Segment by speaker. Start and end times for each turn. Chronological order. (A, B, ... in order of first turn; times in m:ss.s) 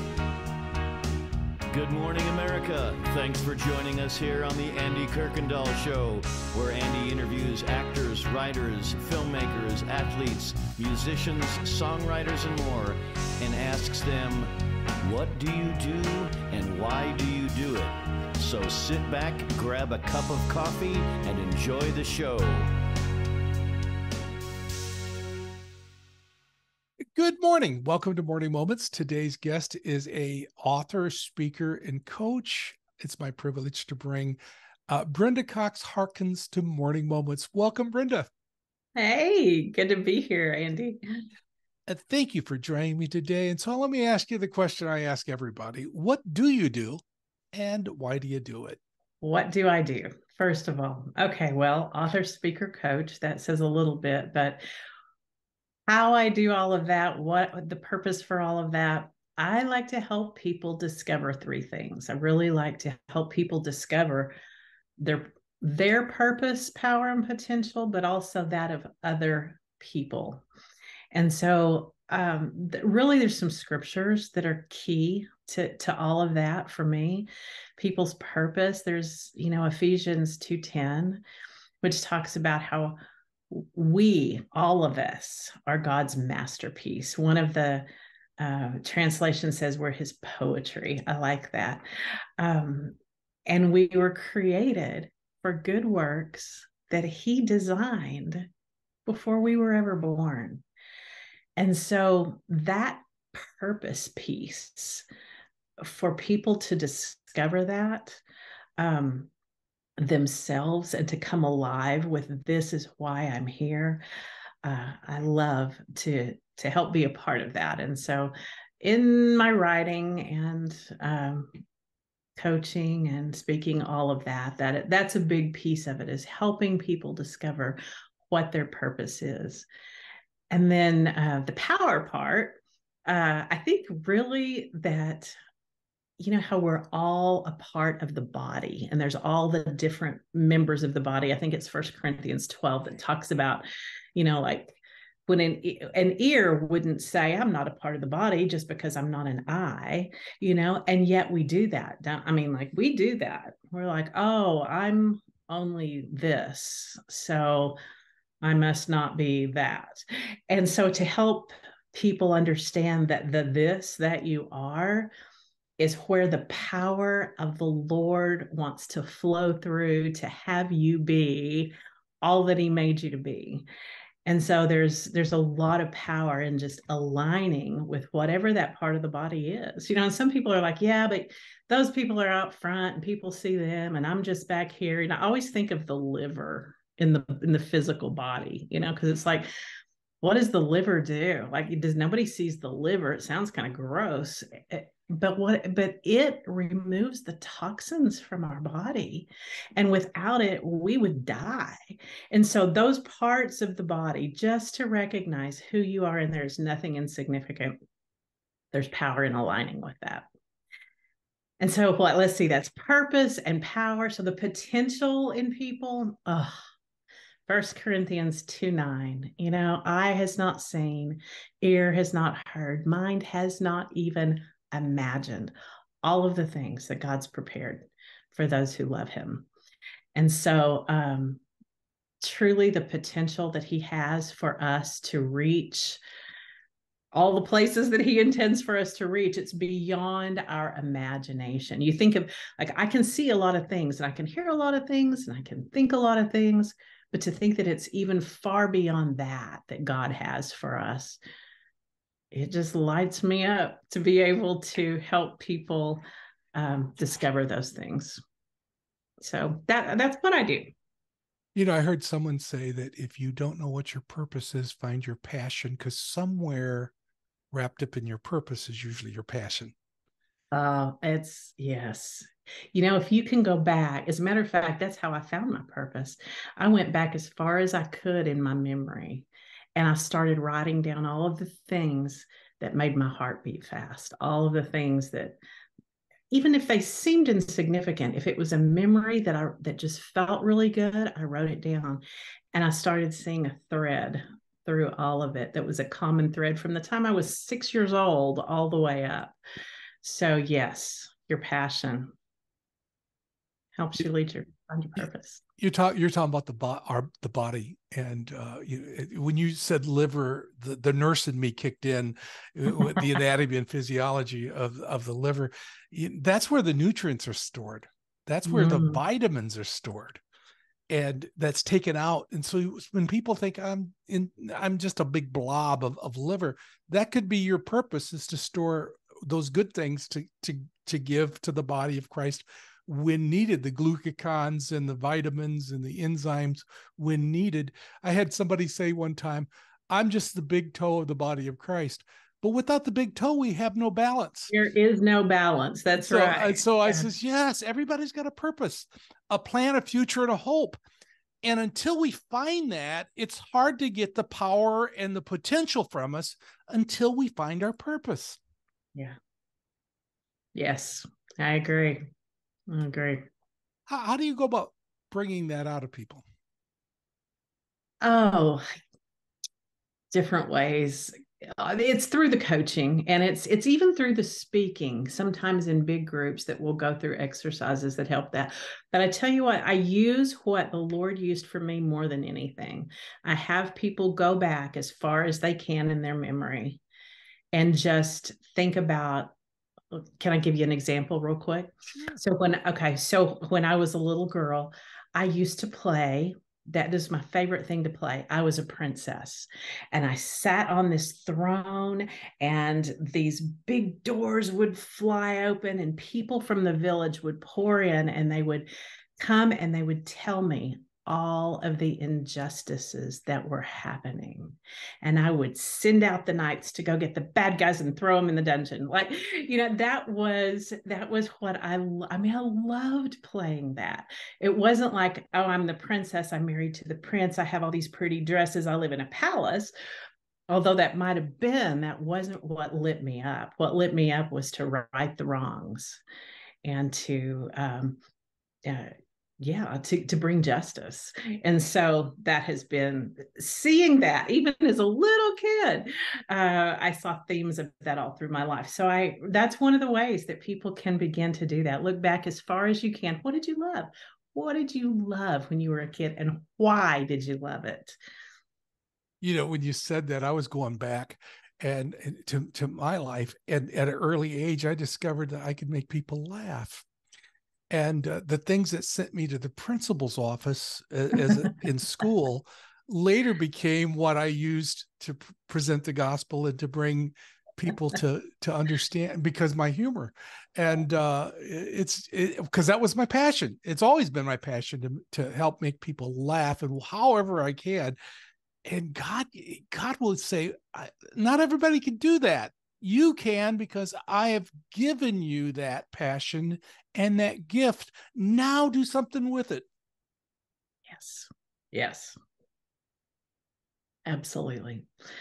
0:01.7-0:14.5 A
0:15.0-0:22.7 A
0:27.2-0:38.3 B
0:38.9-0:41.0 C
0:41.9-0:47.0 B
0:47.5-0:48.8 B
0:49.2-0:54.6 C
0:55.9-1:04.3 C
1:05.0-1:10.4 C
1:11.1-1:21.2 C
1:21.8-1:23.0 C
1:23.5-1:27.9 C
1:28.4-1:31.8 C
1:32.4-1:38.4 C
1:39.0-1:40.6 C
1:41.6-1:45.0 C
1:45.8-1:48.2 C
1:48.8-1:49.3 C
1:50.0-1:54.0 C
1:54.6-2:01.5 C
2:02.4-2:09.7 C
2:10.5-2:15.3 C
2:16.2-2:23.6 C
2:24.1-2:37.8 C
2:38.4-2:45.1 C
2:45.8-2:53.6 C
2:54.2-3:09.5 C
3:10.2-3:27.7 C
3:28.7-3:30.3 C
3:31.6-3:36.5 C
3:37.5-3:49.5 C
3:50.1-3:51.4 C
3:52.2-3:56.0 C
3:57.1-4:11.2 C
4:12.3-4:16.0 C
4:16.5-4:18.2 C
4:19.2-4:20.7 C
4:21.5-4:26.9 B
4:27.5-4:29.7 B
4:30.5-4:45.4 C
4:46.3-4:52.0 C
4:52.5-4:59.4 C
5:00.0-5:02.1 C
5:03.8-5:05.4 C
5:05.6-5:20.2 B
5:18.4-5:19.0 C
5:20.9-5:44.5 B
5:44.5-5:47.1 C
5:46.0-5:50.8 B
5:51.4-5:58.4 B
6:00.5-6:02.0 C
6:02.7-6:03.2 C
6:03.9-6:06.2 B
6:08.0-6:08.6 C
6:10.1-6:26.8 C
6:27.5-6:29.3 C
6:29.9-6:48.7 C
6:31.9-6:32.2 B
6:49.2-7:09.7 C
7:10.5-7:16.0 C
7:16.6-7:18.0 C
7:18.6-7:38.0 C
7:39.2-7:46.8 B
7:47.7-8:08.0 B
8:08.6-8:19.6 B
8:20.9-8:22.2 C
8:24.1-8:24.9 C